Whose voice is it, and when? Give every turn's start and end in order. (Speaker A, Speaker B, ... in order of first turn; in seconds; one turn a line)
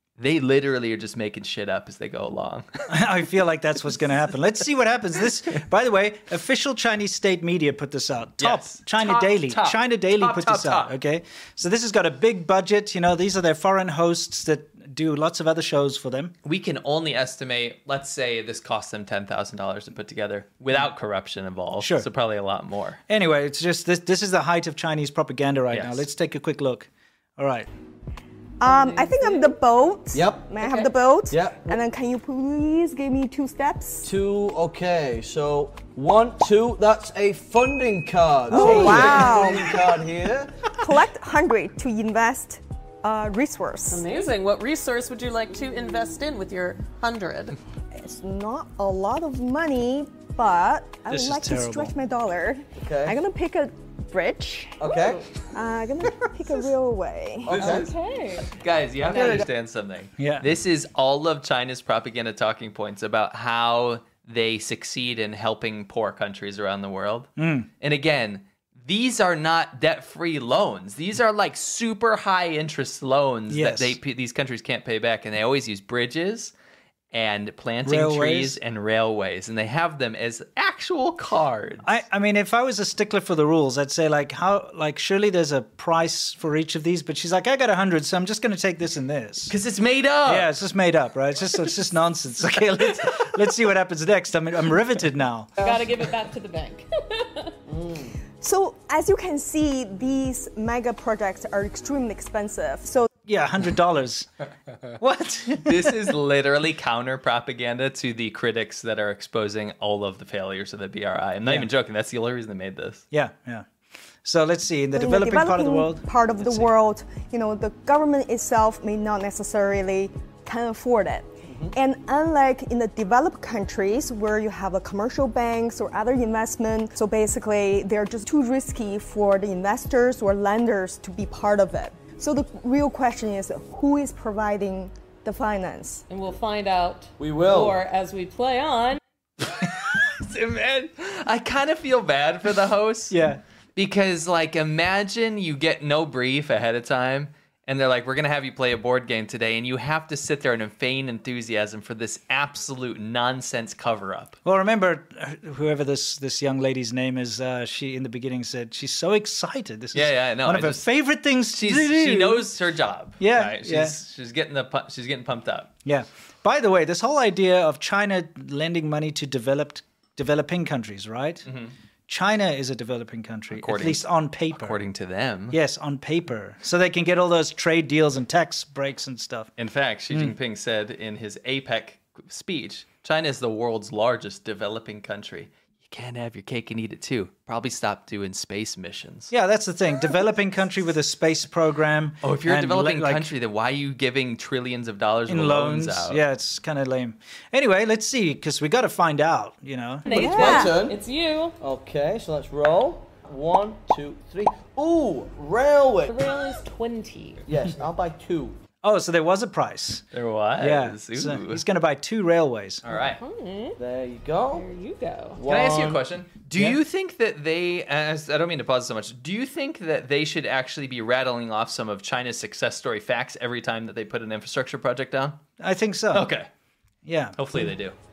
Speaker A: 0.2-2.8
Speaker B: 2.9-16.3
Speaker A: 8.4-10.9
Speaker A: 16.4-23.0
Speaker B: 21.8-22.1
Speaker B: 23.1-27.7
Speaker A: 25.7-26.0
Speaker C: 28.6-34.1
Speaker D: 28.6-29.5
Speaker E: 30.1-30.5
Speaker D: 30.6-30.9
Speaker E: 31.3-31.8
Speaker E: 34.0-40.6
Speaker C: 38.5-39.8
Speaker D: 38.5-39.5
Speaker C: 40.7-44.0
Speaker D: 43.9-47.6
Speaker C: 48.0-54.8
Speaker B: 51.1-51.9
Speaker E: 52.8-53.2
Speaker E: 54.8-55.2
Speaker D: 54.8-55.2
Speaker C: 55.5-57.8
Speaker E: 57.4-57.9
Speaker D: 57.5-58.5
Speaker A: 58.5-76.5
Speaker D: 59.1-59.4
Speaker B: 60.2-60.5
Speaker B: 67.4-67.7
Speaker B: 73.5-74.0
Speaker A: 77.1-81.9
Speaker B: 77.8-78.6
Speaker B: 81.8-89.5
Speaker A: 89.5-90.5
Speaker B: 90.2-95.5
Speaker A: 92.5-93.3
Speaker D: 95.6-97.5
Speaker E: 97.7-98.1
Speaker C: 98.4-103.1
Speaker B: 103.2-104.3
Speaker B: 105.0-106.0
Speaker A: 105.6-113.0
Speaker B: 113.1-113.7
Speaker B: 114.2-116.7
Speaker C: 114.9-136.0
Speaker E: 121.5-121.7
Speaker D: 136.1-139.0
Speaker E: 137.2-137.8
Speaker A: 139.4-143.2
Speaker B: 143.1-143.4
Speaker A: 143.8-154.4
Speaker B: 154.4-162.6
Speaker A: 159.9-160.9
Speaker A: 161.5-165.7
Speaker B: 163.2-163.9
Speaker B: 165.8-171.5
Speaker A: 171.5-171.7
Speaker B: 172.1-174.8
Speaker A: 173.5-175.6
Speaker B: 175.5-179.5
Speaker A: 179.6-189.3
Speaker B: 189.3-193.3
Speaker A: 192.2-196.2
Speaker B: 195.3-200.1
Speaker D: 200.1-201.6
Speaker C: 200.1-200.8
Speaker E: 200.1-201.0
Speaker E: 201.6-206.2
Speaker D: 206.1-207.4
Speaker E: 207.5-208.5
Speaker B: 208.8-210.0
Speaker A: 210.1-211.6
Speaker B: 210.6-212.8
Speaker A: 212.8-213.2
Speaker D: 212.9-213.8
Speaker E: 213.8-214.6
Speaker D: 214.5-215.4
Speaker E: 215.3-216.0
Speaker A: 215.5-225.4
Speaker B: 225.6-226.3
Speaker A: 226.1-226.5
Speaker B: 227.0-227.4
Speaker A: 227.4-227.9